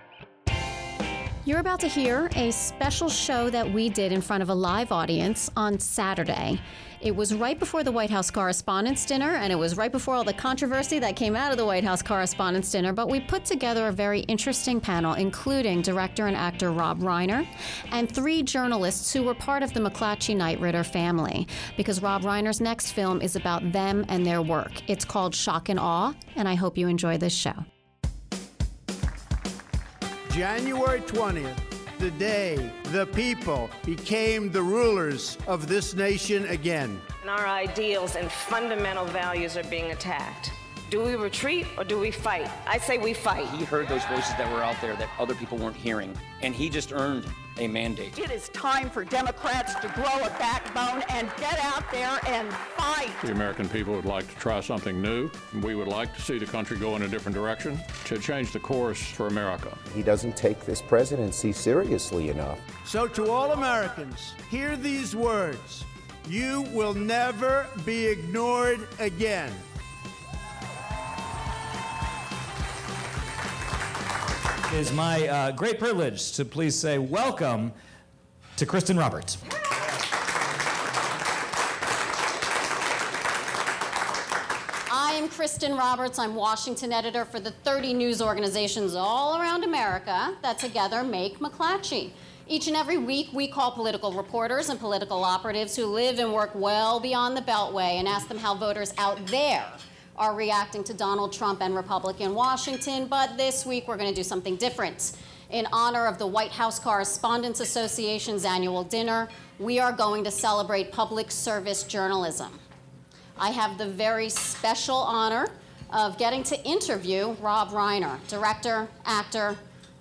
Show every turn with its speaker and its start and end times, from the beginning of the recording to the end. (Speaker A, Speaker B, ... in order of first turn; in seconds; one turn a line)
Speaker A: 1.4-27.6
Speaker B: 30.3-37.0
Speaker C: 37.2-43.5
Speaker D: 43.5-48.1
Speaker E: 48.2-53.2
Speaker F: 53.2-59.8
Speaker G: 59.9-62.6
Speaker B: 62.9-69.6
Speaker H: 74.7-77.7
Speaker H: 78.6-79.4
Speaker A: 84.9-112.6
Speaker A: 113.4-119.6